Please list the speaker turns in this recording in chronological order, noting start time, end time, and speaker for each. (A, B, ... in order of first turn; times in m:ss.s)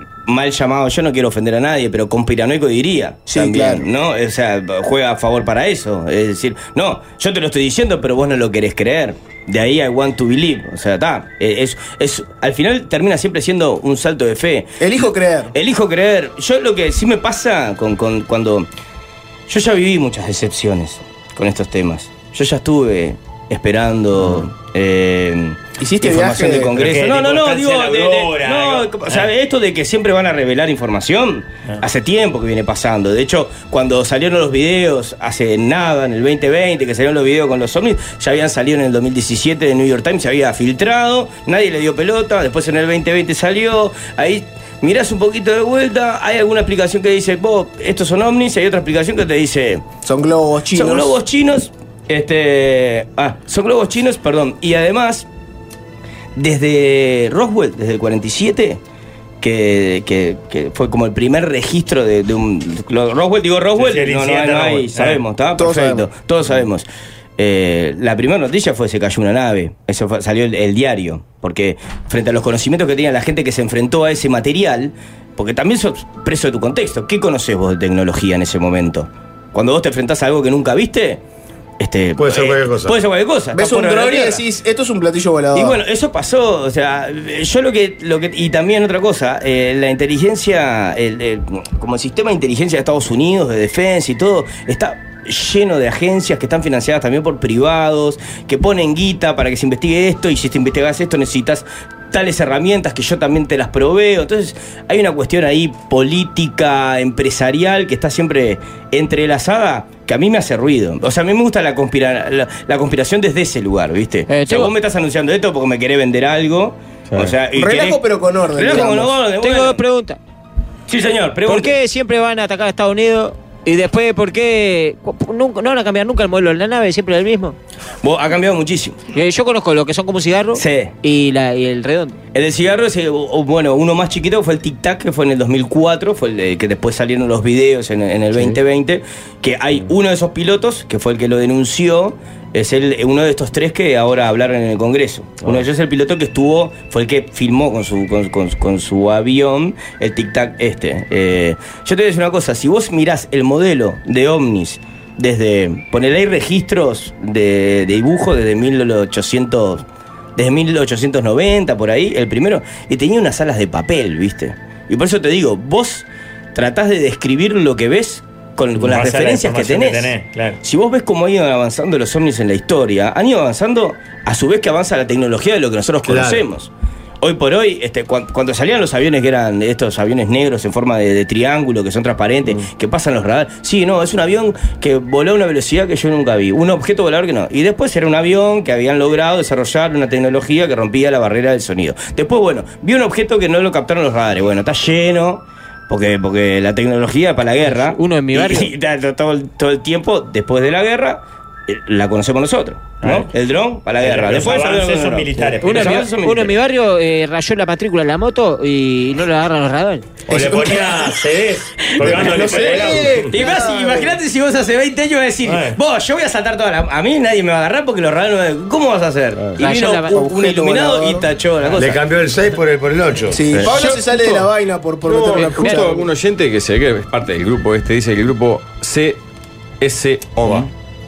0:00.3-0:18.7 A
0:03.3-0:03.9 B
0:14.8-0:15.6 B
0:19.5-0:49.8 A
0:25.8-0:26.8 B
0:26.7-0:29.3 C
0:50.0-0:51.2 B
0:50.7-0:55.3 A
0:56.4-0:58.8 A
0:59.4-1:06.9 A
1:03.8-1:05.2 C
1:05.6-1:06.1 B
1:07.4-1:21.2 A
1:21.8-1:24.4 A
1:22.2-1:22.9 D
1:23.5-1:25.8 B
1:25.6-1:59.8 A
1:54.3-1:54.7 E
1:57.6-1:59.2 B
1:59.3-2:00.2 E
2:00.9-2:01.8 A
2:01.4-2:07.6 E
2:08.0-2:09.0 A
2:09.1-2:12.2 E
2:10.6-2:10.9 A
2:12.3-2:39.8 A
2:40.4-2:56.7 A
2:48.8-2:50.6 C
2:56.0-2:56.5 D
2:57.2-3:26.6 A
3:17.7-3:18.7 E
3:23.0-3:23.3 C
3:24.0-3:26.1 C
3:25.6-3:30.1 E
3:30.3-3:33.1 C
3:30.3-3:30.8 B
3:32.0-3:42.0 A
3:32.0-3:34.2 B
3:35.4-3:35.8 C
3:39.4-3:39.6 F
3:39.6-3:40.2 E
3:40.0-3:41.3 B
3:41.8-3:43.7 D
3:43.3-3:46.1 B
3:43.5-3:44.4 F
3:45.1-3:49.2 F
3:45.6-3:45.9 E
3:49.8-3:50.7 F